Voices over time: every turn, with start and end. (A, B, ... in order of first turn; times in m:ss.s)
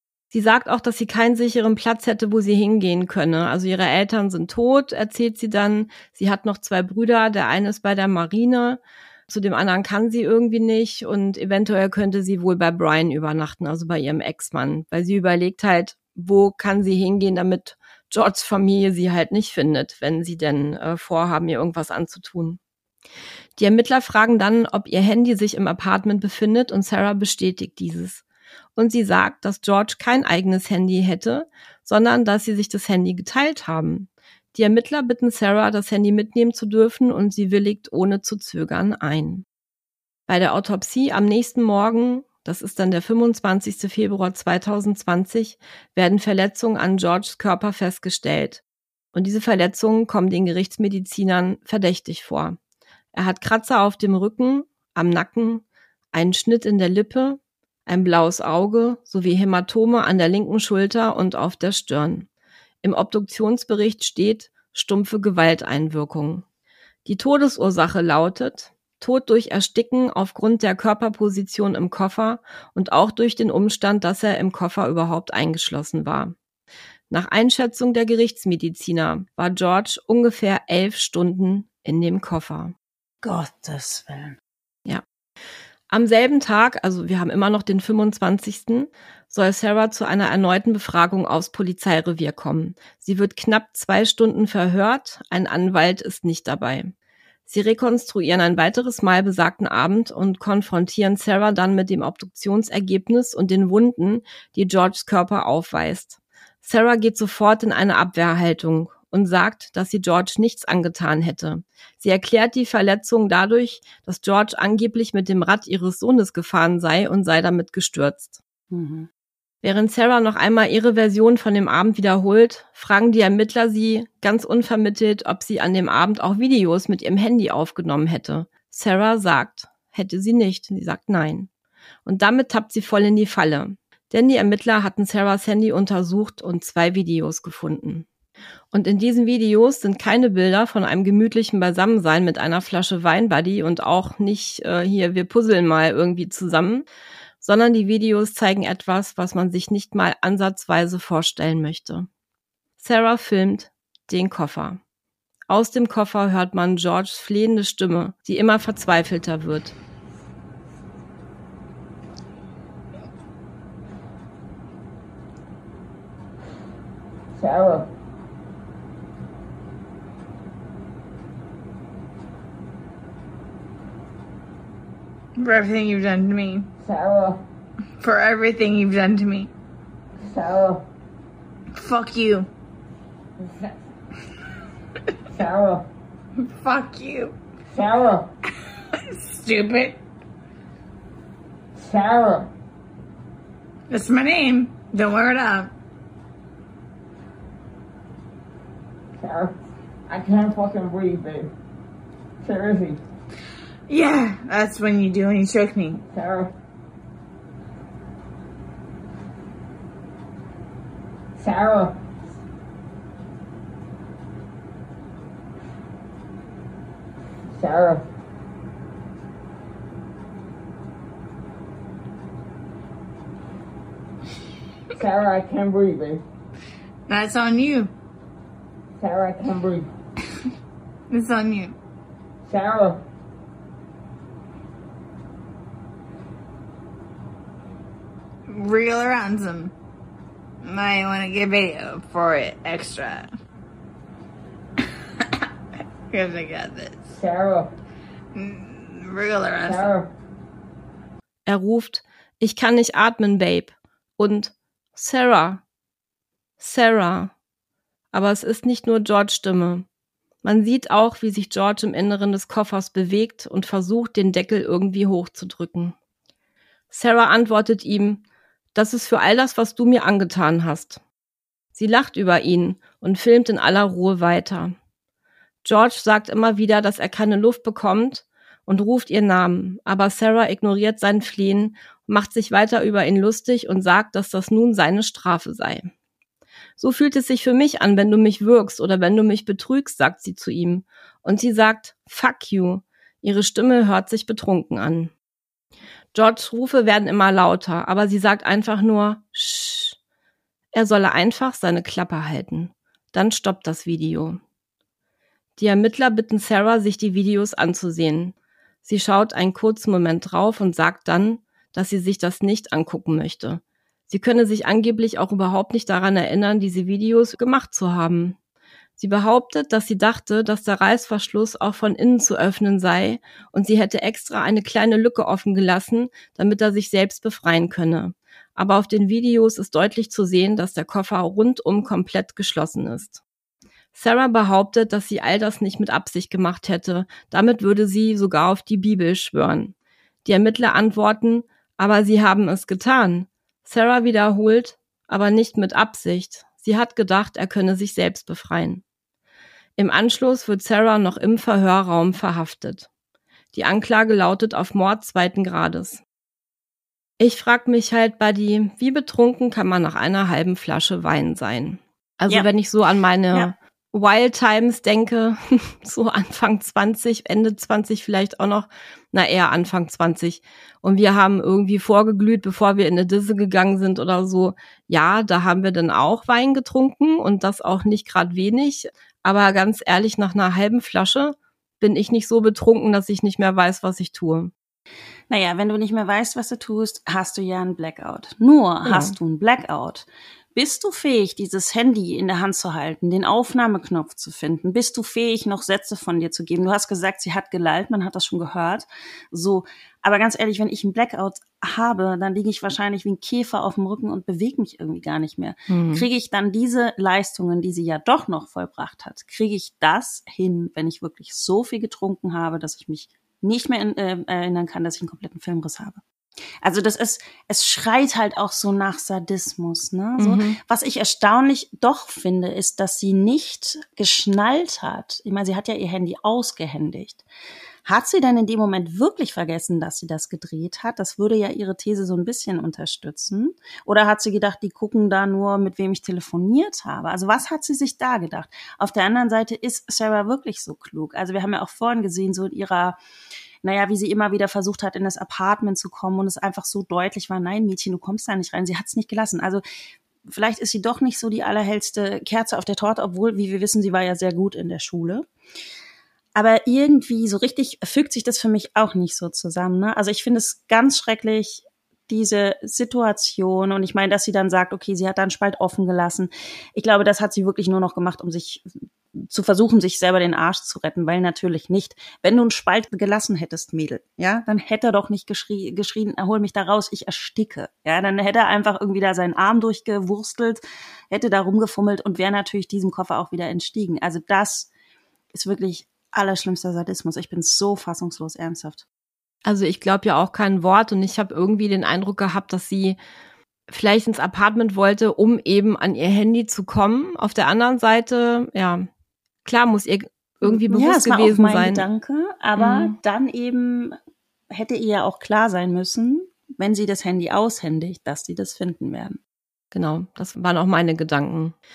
0:00.3-0:22.6 A
0:23.6-0:28.2 A
0:28.8-0:39.4 A
0:40.3-0:48.6 A
0:49.1-0:52.6 A
0:53.1-1:02.3 A
1:02.8-1:06.4 A
1:07.0-1:16.3 A
1:17.1-1:22.7 A
1:23.2-1:24.4 B
1:25.9-1:36.9 A
1:37.5-1:58.4 A
1:58.7-1:59.1 B
1:59.6-2:11.5 A
2:12.1-2:18.1 A
2:18.7-2:26.9 A
2:27.4-2:32.1 A
2:32.8-2:34.8 A
2:35.5-2:39.7 A
2:47.4-2:47.9 C
2:55.4-2:56.7 D
2:56.8-2:57.4 C
2:58.0-2:59.5 D
3:00.2-3:00.8 C
3:01.8-3:02.5 D
3:03.4-3:03.8 C
3:05.3-3:05.9 C
3:06.5-3:07.4 D
3:07.7-3:08.3 C
3:09.1-3:10.0 D
3:11.8-3:12.5 C
3:13.9-3:15.7 D
3:19.2-3:19.6 C
3:20.1-3:21.5 C
3:22.4-3:23.0 C
3:23.9-3:26.0 D
3:26.0-3:26.5 C
3:31.4-3:32.0 C
3:37.5-3:38.0 C
3:45.0-3:46.2 C
3:47.1-3:47.9 D
3:49.0-3:49.9 C
3:51.1-3:51.8 D
3:52.5-3:53.0 C
3:58.5-3:59.7 D
4:00.6-4:03.3 D
4:06.1-4:07.1 D
4:07.1-4:07.7 C
4:08.3-4:09.9 D
4:09.6-4:10.1 C
4:11.5-4:15.6 A
4:16.6-4:17.3 A
4:18.1-4:19.9 A
4:20.4-4:26.0 A
4:26.9-4:28.2 A
4:28.8-4:31.0 A
4:31.7-4:34.8 A
4:35.6-4:45.9 A
4:46.8-4:55.1 A
4:56.1-5:00.0 A
5:00.7-5:04.4 A
5:05.6-5:18.4 A
5:19.0-5:33.2 A
5:33.9-5:39.7 A
5:40.2-5:48.8 A
5:49.8-5:52.9 A
5:53.5-5:56.0 A
5:57.2-6:24.5 A
6:25.3-6:56.0 B
6:28.8-6:29.2 A
6:45.7-6:46.1 A
6:56.6-7:07.2 B
7:00.2-7:00.6 A
7:07.8-7:23.0 B
7:23.6-7:29.6 B
7:30.2-7:35.3 B
7:36.4-8:04.7 B
8:05.3-8:08.8 B
8:09.4-8:13.0 A
8:13.7-8:18.9 A
8:19.4-8:21.9 A
8:20.4-8:24.0 B
8:22.6-8:23.0 A
8:24.5-8:29.2 B
8:29.7-8:31.6 A